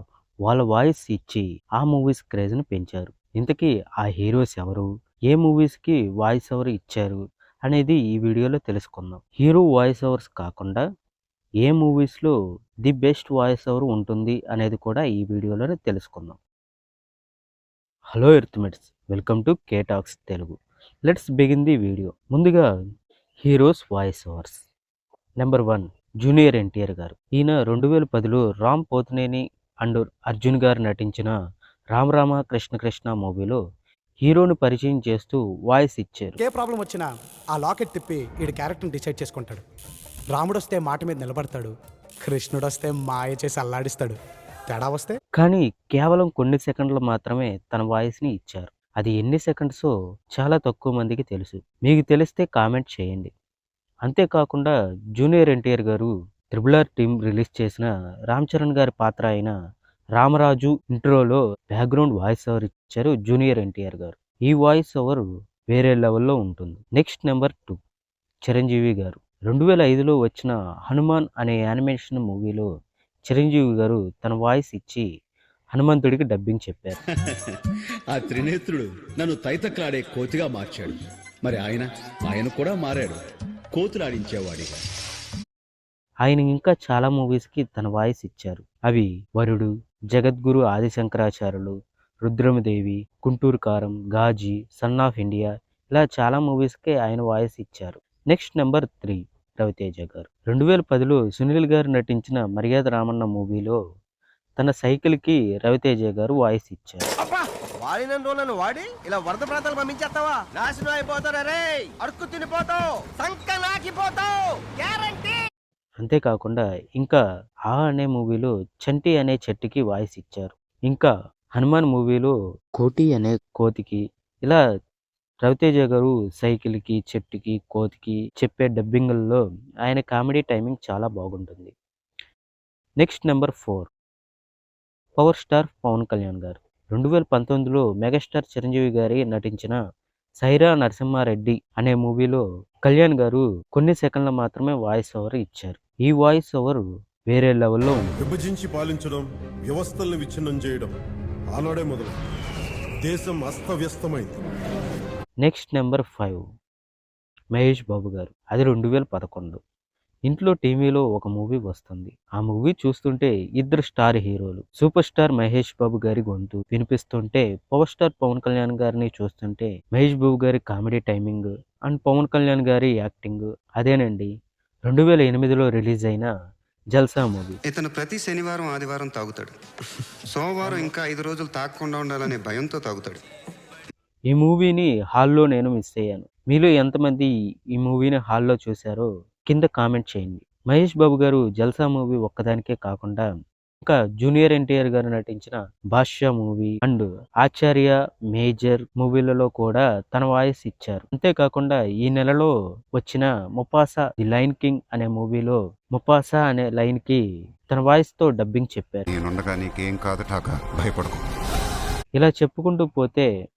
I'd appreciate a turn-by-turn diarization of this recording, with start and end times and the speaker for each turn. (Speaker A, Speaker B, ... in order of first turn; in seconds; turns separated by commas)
Speaker A: 0.5-10.8, Speaker A: 11.6-16.4, Speaker A: 18.1-22.7, Speaker A: 23.4-24.6, Speaker A: 25.4-31.3, Speaker A: 31.9-33.6, Speaker A: 34.2-36.4, Speaker B: 36.4-39.6, Speaker B: 40.3-41.7, Speaker B: 42.2-44.2, Speaker B: 44.7-45.2, Speaker A: 45.4-53.3, Speaker A: 54.0-59.5, Speaker A: 60.2-67.8, Speaker A: 68.4-72.7, Speaker A: 73.3-75.1, Speaker A: 75.7-77.0, Speaker C: 78.1-83.2, Speaker C: 83.7-84.7, Speaker A: 86.2-103.8, Speaker A: 104.6-107.0, Speaker D: 107.2-115.4, Speaker A: 116.0-124.6, Speaker A: 125.4-131.7, Speaker A: 133.0-133.9, Speaker A: 135.2-139.8, Speaker A: 140.4-148.1, Speaker E: 148.2-150.9, Speaker E: 151.5-152.2, Speaker E: 153.0-154.4, Speaker A: 155.4-156.4, Speaker A: 157.5-159.6, Speaker A: 160.3-174.3, Speaker A: 174.9-176.3, Speaker A: 176.9-177.6, Speaker F: 177.6-179.5, Speaker F: 180.3-183.2, Speaker A: 184.3-193.2, Speaker A: 193.8-209.0, Speaker F: 209.1-211.2, Speaker A: 212.2-213.3